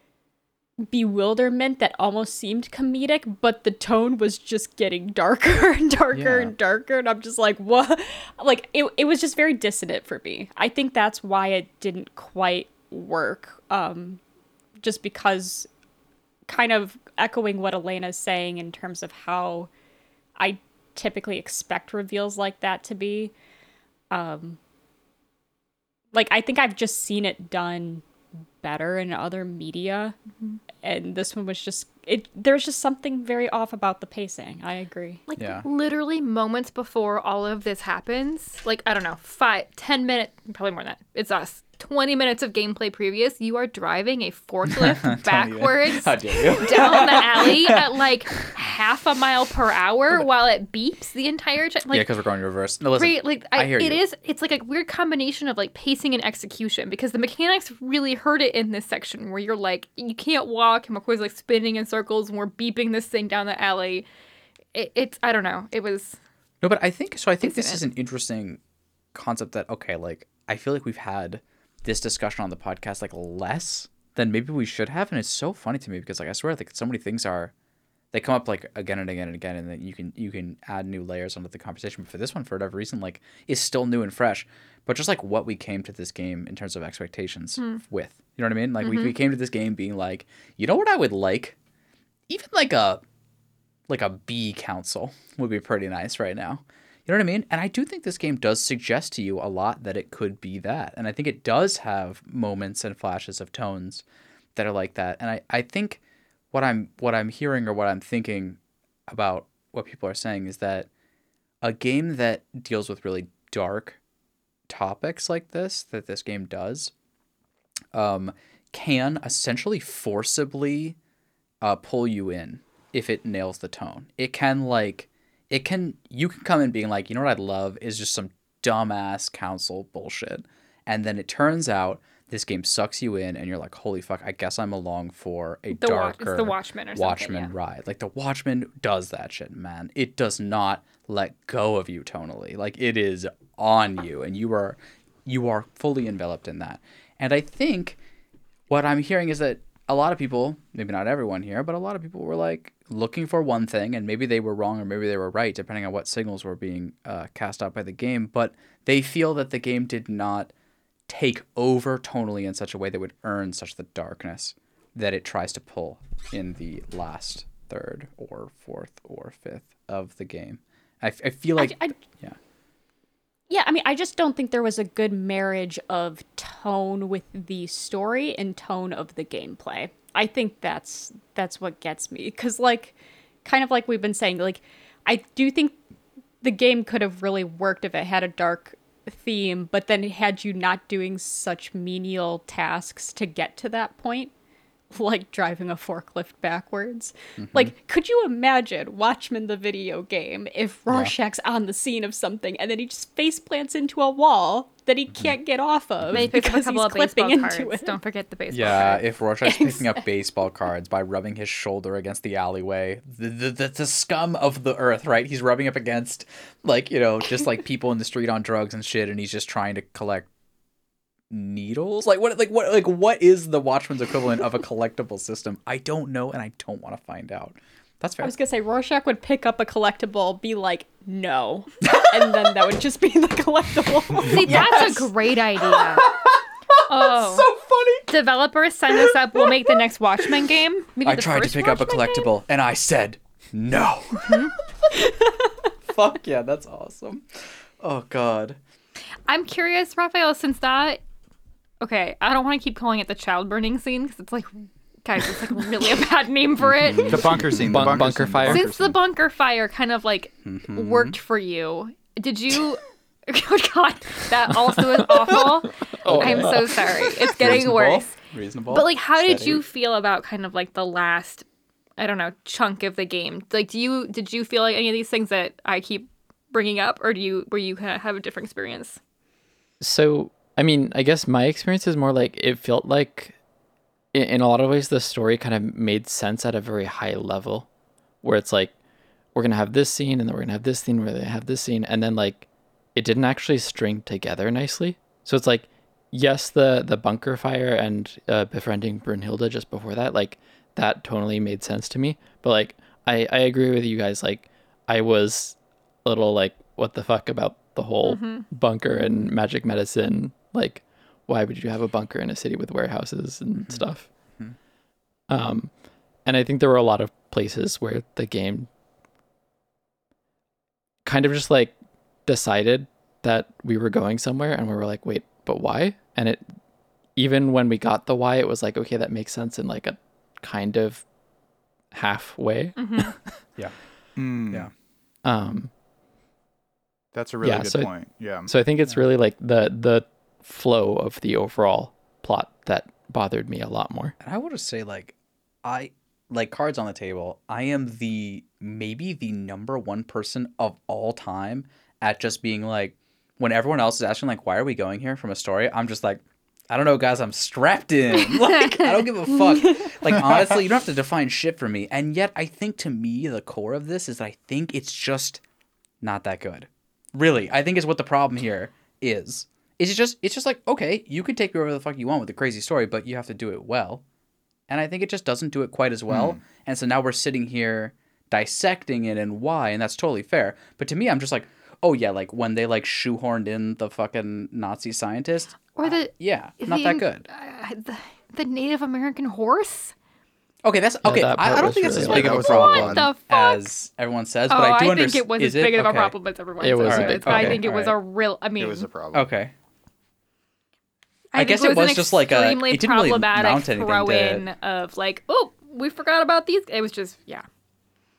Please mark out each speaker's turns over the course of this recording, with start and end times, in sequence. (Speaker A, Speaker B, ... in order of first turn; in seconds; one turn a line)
Speaker A: 0.9-14.2
Speaker B: 6.1-6.5
Speaker A: 14.8-15.7
Speaker A: 16.5-19.7
Speaker A: 20.4-23.3
Speaker A: 24.1-24.6
Speaker A: 26.1-28.0
Speaker A: 28.6-30.2
Speaker A: 30.8-35.3
Speaker C: 35.3-52.1
Speaker B: 35.4-35.7
Speaker B: 44.7-47.9
Speaker B: 51.9-54.0
Speaker C: 53.0-64.0
Speaker C: 64.7-66.2
Speaker B: 66.6-68.6
Speaker C: 67.4-67.8
Speaker B: 69.1-77.5
Speaker B: 78.1-91.6
Speaker C: 88.8-89.2
Speaker B: 92.3-93.0
Speaker B: 93.9-104.0
Speaker B: 104.5-110.9
Speaker B: 111.6-114.0
Speaker B: 114.7-116.9
Speaker B: 117.9-121.0
Speaker B: 121.6-148.0
Speaker C: 135.7-137.5
Speaker B: 148.7-160.5
Speaker B: 161.1-172.4
Speaker A: 171.6-171.9
Speaker A: 173.5-185.8
Speaker A: 186.4-194.3
Speaker A: 194.9-208.0
Speaker B: 197.4-197.7
Speaker C: 206.1-209.1
Speaker B: 208.5-220.3
Speaker A: 209.4-210.0
Speaker B: 221.3-228.3
Speaker A: 228.2-234.7
Speaker B: 231.8-232.4
Speaker C: 234.3-236.1
Speaker B: 234.4-238.1
Speaker C: 236.9-237.5
Speaker C: 238.1-242.3
Speaker B: 239.0-239.9
Speaker B: 241.0-245.1
Speaker C: 244.2-244.5
Speaker B: 245.9-248.6
Speaker C: 249.3-251.0
Speaker C: 251.8-257.3
Speaker B: 256.6-258.6
Speaker D: 257.1-259.0
Speaker E: 257.6-258.7
Speaker C: 258.5-268.2
Speaker B: 260.4-261.2
Speaker E: 264.6-267.1
Speaker B: 266.1-266.5
Speaker B: 267.4-269.6
Speaker C: 268.7-271.5
Speaker C: 272.0-279.0
Speaker E: 279.8-283.4
Speaker E: 284.1-287.7
Speaker E: 288.2-288.8
Speaker E: 289.3-314.1
Speaker C: 308.1-308.5
Speaker B: 313.6-314.6
Speaker E: 315.3-315.7
Speaker E: 316.2-318.7
Speaker E: 321.1-321.7
Speaker E: 322.3-326.5
Speaker E: 327.1-331.1
Speaker E: 331.9-333.2
Speaker C: 332.8-333.2
Speaker D: 334.2-334.7
Speaker E: 335.2-335.7
Speaker D: 337.1-338.5
Speaker E: 337.4-344.1
Speaker B: 344.2-365.4
Speaker C: 358.3-359.5
Speaker B: 366.0-374.0
Speaker B: 374.7-387.2
Speaker D: 376.1-376.4
Speaker C: 385.8-389.9
Speaker B: 390.6-396.1
Speaker E: 391.0-392.5
Speaker D: 391.8-393.1
Speaker C: 392.3-393.7
Speaker C: 394.5-398.9
Speaker E: 396.6-397.8
Speaker B: 396.8-397.9
Speaker D: 398.6-399.3
Speaker B: 399.1-399.5
Speaker C: 401.3-407.5
Speaker B: 401.4-404.5